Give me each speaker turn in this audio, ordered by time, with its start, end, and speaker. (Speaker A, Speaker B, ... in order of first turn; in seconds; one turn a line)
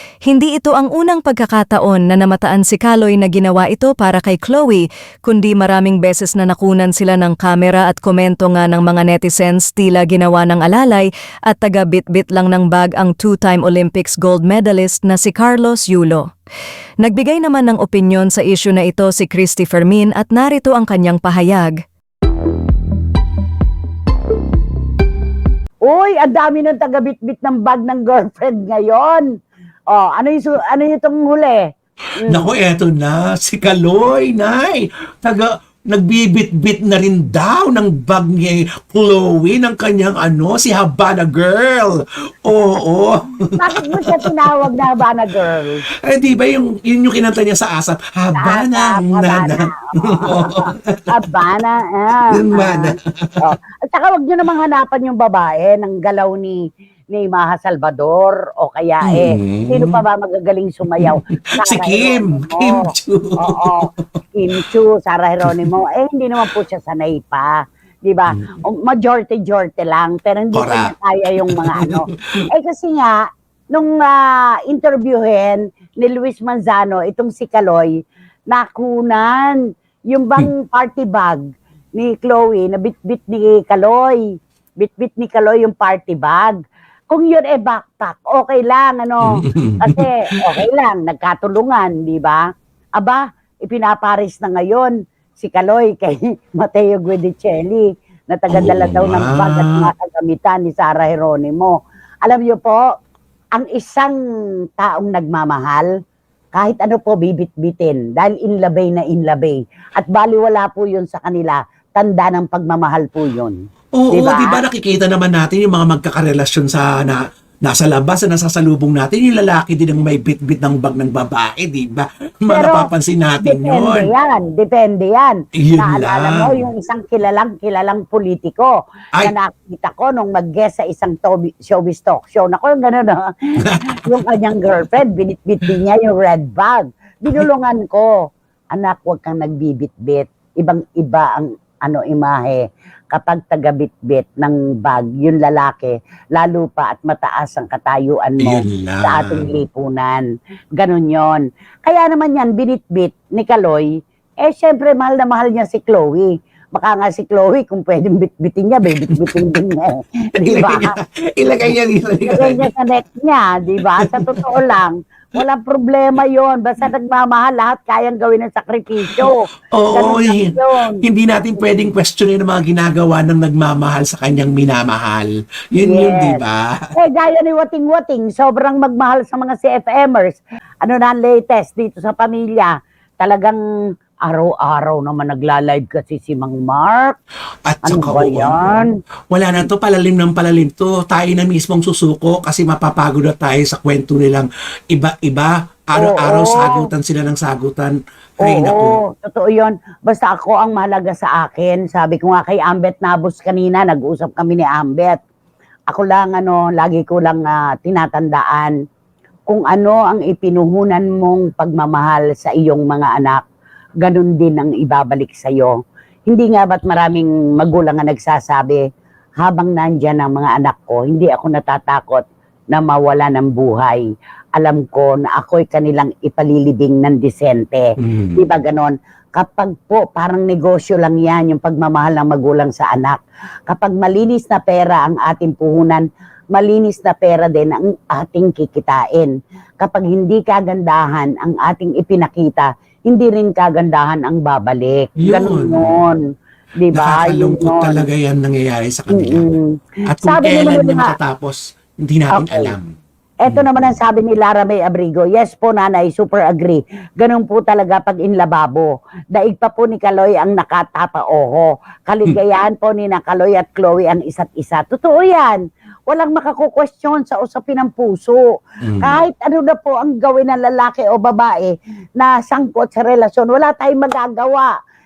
Speaker A: 0.2-16.2
Speaker A: 17.0-21.8
Speaker B: 25.8-29.3
Speaker B: 29.9-31.6
Speaker B: 32.2-32.5
Speaker C: 32.3-44.9
Speaker B: 43.6-45.8
Speaker C: 46.0-51.0
Speaker B: 48.4-56.6
Speaker C: 52.3-53.4
Speaker B: 57.1-62.9
Speaker C: 59.0-60.0
Speaker C: 61.0-64.0
Speaker B: 63.4-63.8
Speaker B: 64.3-77.9
Speaker C: 68.3-68.6
Speaker C: 70.5-72.4
Speaker B: 78.5-79.6
Speaker B: 80.1-81.4
Speaker B: 82.0-84.2
Speaker B: 84.8-86.5
Speaker B: 87.1-92.4
Speaker C: 89.4-90.1
Speaker B: 93.0-101.7
Speaker C: 98.5-99.9
Speaker B: 102.2-102.8
Speaker B: 103.5-104.2
Speaker B: 104.8-105.9
Speaker B: 106.5-113.5
Speaker C: 113.9-124.1
Speaker B: 114.1-114.6
Speaker B: 122.5-122.9
Speaker B: 123.4-133.2
Speaker C: 125.6-126.6
Speaker C: 133.6-134.7
Speaker B: 134.0-138.1
Speaker B: 138.7-142.6
Speaker B: 143.1-150.2
Speaker C: 148.4-149.6
Speaker B: 150.8-153.9
Speaker B: 154.4-160.9
Speaker C: 158.9-159.5
Speaker C: 160.4-162.7
Speaker B: 162.2-169.4
Speaker C: 163.8-164.5
Speaker C: 169.1-176.9
Speaker B: 169.9-171.0
Speaker B: 175.8-176.4
Speaker B: 177.0-183.6
Speaker B: 184.3-187.2
Speaker C: 187.6-188.6
Speaker B: 187.8-188.9
Speaker C: 189.3-199.0
Speaker B: 195.9-196.9
Speaker B: 198.4-205.2
Speaker B: 205.9-208.7
Speaker B: 209.5-213.4
Speaker B: 214.0-215.8
Speaker B: 216.3-218.8
Speaker B: 219.4-224.0
Speaker B: 224.5-246.2
Speaker C: 228.0-228.4
Speaker C: 245.2-245.9
Speaker B: 246.8-248.1
Speaker C: 246.9-249.4
Speaker B: 249.1-251.2
Speaker C: 250.1-252.9
Speaker B: 252.3-252.7
Speaker B: 253.4-268.4
Speaker C: 253.5-253.7
Speaker C: 268.8-269.1
Speaker B: 269.0-274.7